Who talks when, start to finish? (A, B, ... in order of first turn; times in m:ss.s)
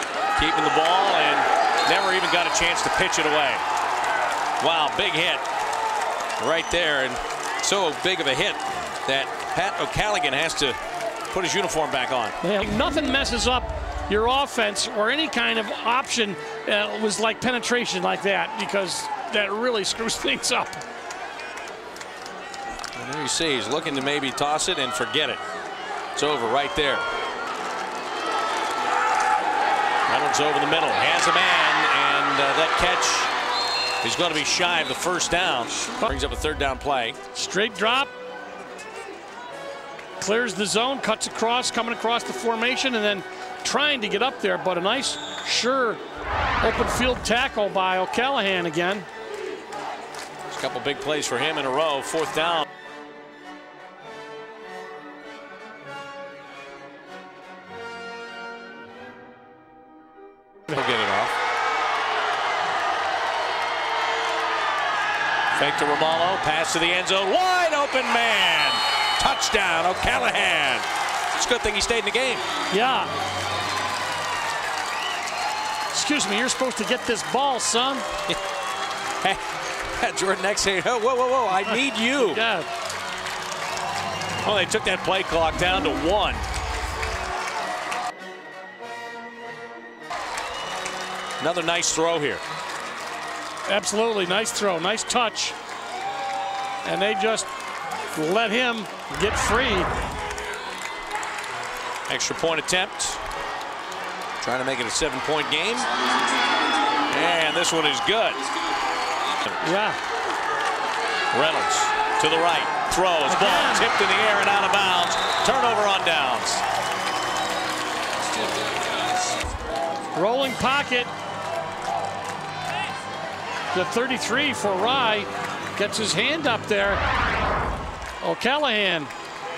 0:00.4-0:03.6 A
0:04.6-0:05.4 A
0:06.4-0:10.8 A
0:11.3-0:12.3 A
0:12.4-0:20.8 B
0:23.0-0:25.4 A
0:26.2-0:27.0 A
0:30.1-0:33.3 A
0:34.0-0:37.2 A
0:37.3-0:38.1 B
0:40.2-0:46.0 B
0:46.6-0:49.1 B
0:50.5-0:52.7 A
1:00.7-1:01.3 A
1:05.5-1:12.4 A
1:12.7-1:13.1 B
1:15.9-1:18.1 B
1:19.2-1:22.4 A
1:22.2-1:22.7 B
1:24.4-1:26.4 A
1:31.4-1:32.4 A
1:33.7-1:35.6 B
1:36.8-1:37.5 B
1:38.2-1:39.9 B
1:42.1-1:43.2 A
1:44.4-1:45.9 A
1:47.1-1:48.4 A
1:49.6-1:50.0 B
1:51.3-1:56.6 A
1:53.3-1:53.8 B
2:00.1-2:01.1 B
2:03.7-2:07.0 B
2:08.2-2:09.1 B